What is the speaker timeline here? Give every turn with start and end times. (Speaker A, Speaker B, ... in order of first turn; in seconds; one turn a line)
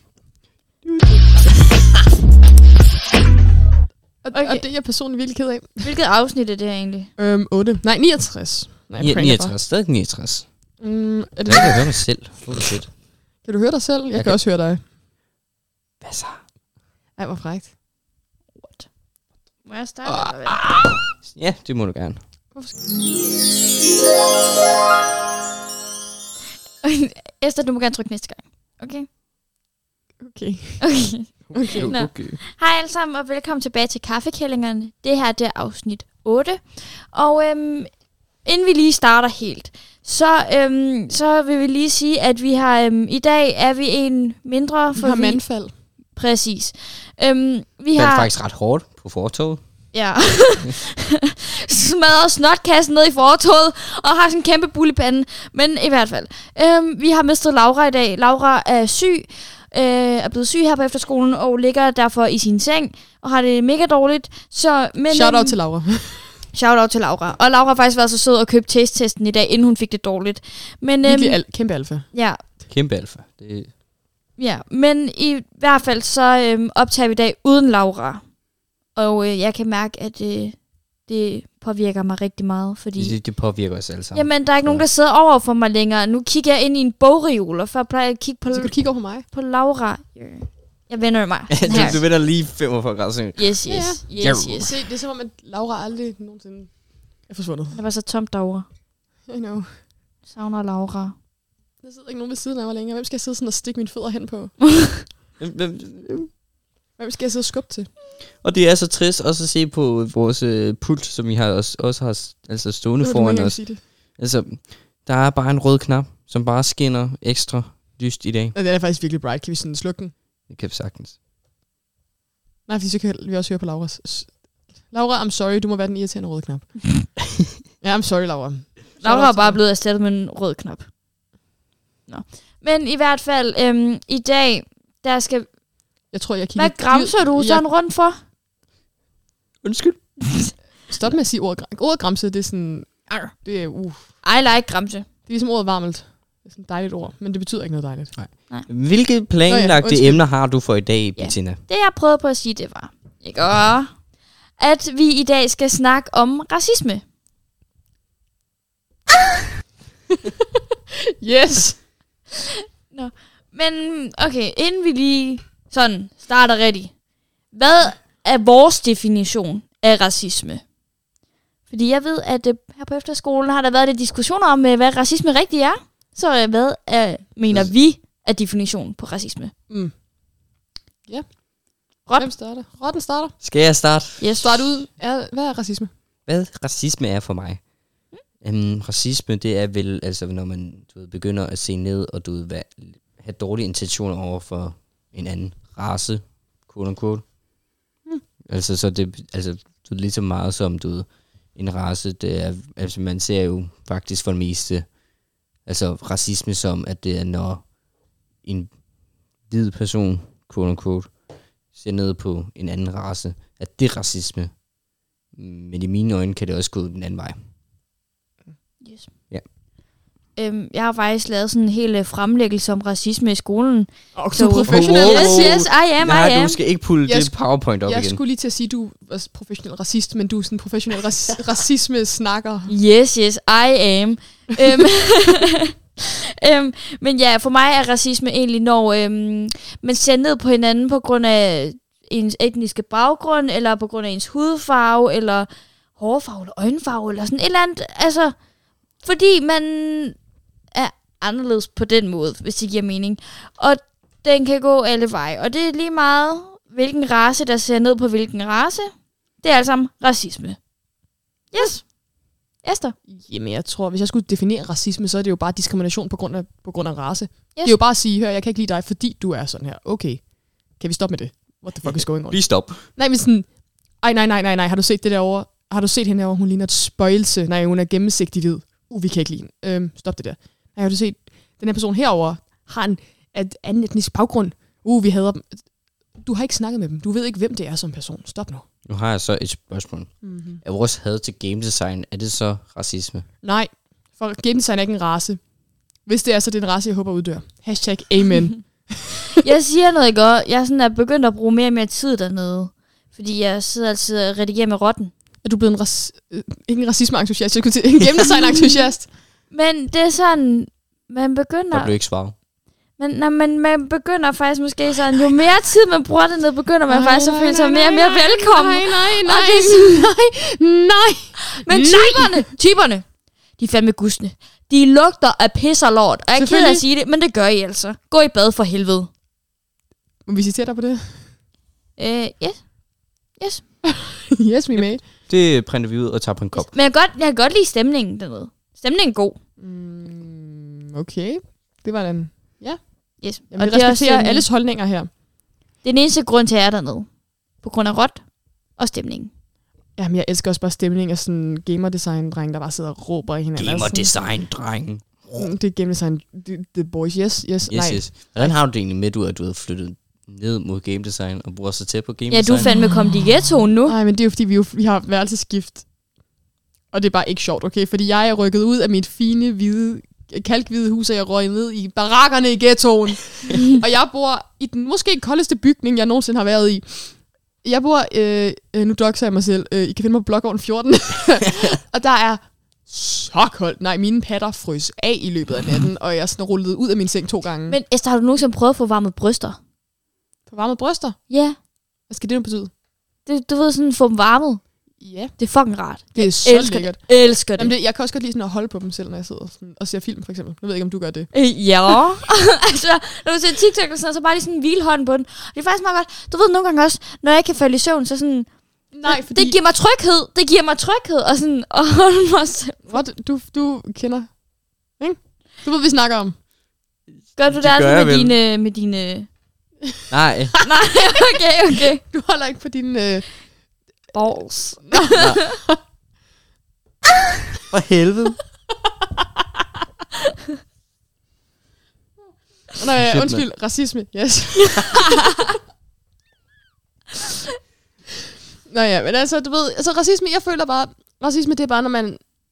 Speaker A: 4.2-5.9
Speaker B: 4.3-4.6
Speaker B: 5.8-7.1
Speaker A: 7.2-9.6
Speaker C: 9.0-10.5
Speaker A: 10.8-11.9
Speaker C: 11.5-12.9
Speaker A: 13.4-14.8
Speaker C: 14.1-14.4
Speaker C: 16.0-16.4
Speaker A: 17.2-17.7
Speaker B: 18.6-18.9
Speaker B: 19.6-20.6
Speaker C: 21.2-22.2
Speaker A: 22.5-22.9
Speaker B: 26.8-29.1
Speaker A: 30.2-31.9
Speaker B: 30.8-37.9
Speaker C: 31.7-32.4
Speaker B: 38.4-45.4
Speaker A: 45.0-45.7
Speaker B: 46.2-48.3
Speaker C: 48.0-49.6
Speaker B: 49.9-65.6
Speaker A: 65.1-66.3
Speaker B: 66.5-71.4
Speaker A: 71.0-72.1
Speaker B: 72.1-72.4
Speaker C: 72.7-73.7
Speaker B: 74.4-78.2
Speaker B: 79.0-83.2
Speaker C: 83.0-84.8
Speaker B: 84.1-92.0
Speaker A: 88.5-89.2
Speaker C: 91.5-93.5
Speaker A: 91.7-92.0
Speaker B: 93.4-94.7
Speaker A: 93.7-97.8
Speaker C: 94.2-94.7
Speaker B: 97.7-98.7
Speaker A: 99.3-99.7
Speaker B: 100.3-101.2
Speaker A: 101.8-104.6
Speaker C: 105.4-106.3
Speaker A: 107.0-107.9
Speaker C: 108.4-118.5
Speaker A: 113.0-113.8
Speaker A: 118.5-120.1
Speaker C: 120.5-121.2
Speaker A: 122.7-127.1
Speaker A: 127.8-129.6
Speaker B: 129.0-130.9
Speaker B: 132.1-135.5
Speaker A: 136.1-137.6
Speaker B: 136.6-138.2
Speaker C: 139.6-140.1
Speaker A: 140.9-144.1
Speaker B: 144.2-145.1
Speaker A: 145.3-148.2
Speaker C: 148.2-151.6
Speaker A: 149.5-150.2
Speaker B: 151.2-153.9
Speaker B: 154.6-157.0
Speaker A: 161.2-161.8
Speaker B: 162.9-166.9
Speaker B: 167.5-170.6
Speaker B: 171.7-179.5
Speaker A: 182.2-183.3
Speaker C: 183.4-184.4
Speaker B: 184.2-184.7
Speaker A: 184.4-185.9
Speaker C: 186.3-187.6
Speaker C: 188.4-197.2
Speaker C: 198.5-204.9
Speaker C: 205.7-207.6
Speaker C: 208.4-208.7
Speaker C: 209.5-211.1
Speaker C: 211.7-214.6
Speaker C: 215.4-217.4
Speaker B: 218.8-219.1
Speaker B: 220.4-226.6
Speaker A: 224.2-225.6
Speaker C: 224.6-228.2
Speaker A: 227.1-232.7
Speaker B: 232.7-248.3
Speaker B: 249.0-250.2
Speaker B: 250.7-260.6
Speaker B: 261.5-261.9
Speaker B: 262.6-262.9
Speaker A: 263.1-273.5
Speaker C: 272.3-272.8
Speaker A: 274.0-285.6
Speaker A: 286.2-288.6
Speaker C: 288.9-293.3
Speaker A: 290.2-290.6
Speaker A: 293.4-295.4
Speaker A: 296.1-299.4
Speaker B: 299.4-305.1
Speaker A: 305.4-309.1
Speaker B: 309.5-311.9
Speaker C: 311.7-312.4
Speaker B: 313.0-320.1
Speaker A: 316.9-322.4
Speaker B: 321.6-323.1
Speaker B: 323.6-329.1
Speaker A: 326.4-326.8
Speaker A: 330.3-331.3
Speaker B: 332.0-333.6
Speaker A: 333.9-335.0
Speaker C: 334.8-336.7
Speaker B: 336.5-339.4
Speaker A: 339.6-342.8
Speaker B: 343.2-344.5
Speaker A: 343.4-345.1
Speaker B: 345.8-347.1
Speaker B: 347.6-348.2
Speaker B: 348.8-349.3
Speaker A: 350.0-354.1
Speaker C: 353.6-355.5
Speaker A: 355.3-358.6
Speaker C: 357.7-362.7
Speaker B: 362.3-363.9
Speaker A: 363.9-365.9
Speaker A: 366.9-387.8
Speaker B: 387.7-389.6
Speaker A: 390.5-391.2
Speaker B: 391.3-391.6
Speaker A: 392.1-392.7
Speaker B: 393.3-394.6
Speaker A: 395.0-395.4
Speaker B: 395.4-397.7
Speaker A: 396.1-397.0
Speaker A: 397.5-401.3
Speaker B: 401.3-408.5
Speaker A: 408.9-409.6
Speaker B: 409.1-413.0
Speaker A: 412.9-414.4
Speaker A: 415.0-416.4
Speaker B: 417.4-419.3
Speaker C: 417.5-418.4
Speaker C: 420.1-420.6
Speaker B: 420.6-422.0
Speaker A: 422.0-423.3
Speaker B: 424.1-425.6
Speaker A: 424.9-425.8
Speaker C: 425.2-425.4
Speaker C: 427.7-428.4
Speaker A: 432.7-435.5
Speaker C: 433.0-433.4
Speaker A: 438.7-442.2